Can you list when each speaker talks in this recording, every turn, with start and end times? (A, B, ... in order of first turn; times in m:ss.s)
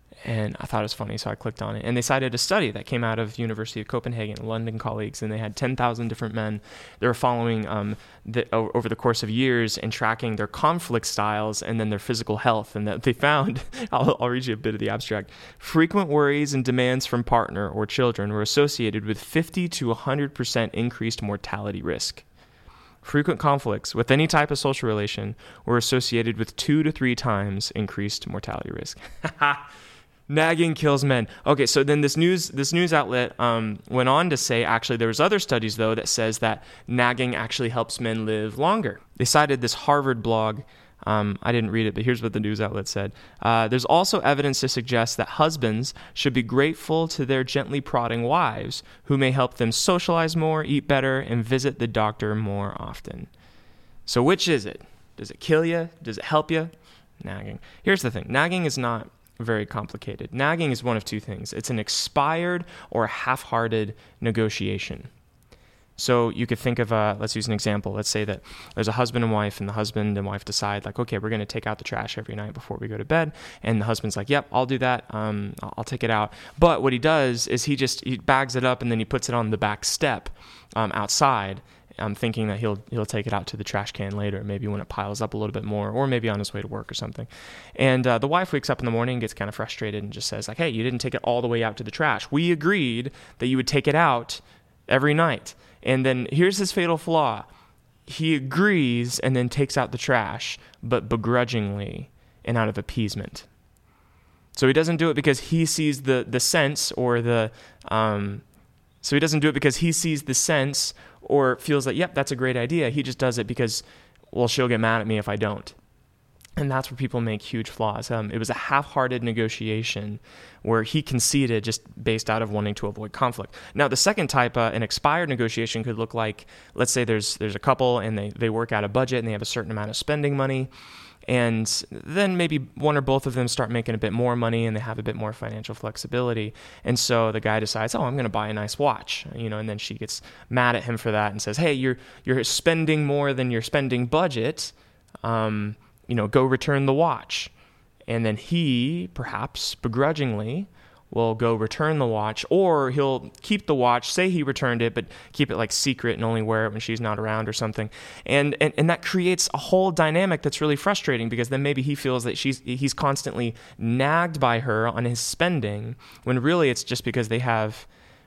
0:00.2-0:22.2 A
0:23.0-0:29.7 A
0:30.3-0:53.3 A
0:54.0-1:05.1 A
1:06.0-1:37.5 A
1:38.0-1:43.5 A
1:44.5-1:48.4 A
1:49.0-1:55.8 A
1:56.6-2:10.7 A
2:11.3-2:27.5 A
2:28.1-2:47.9 A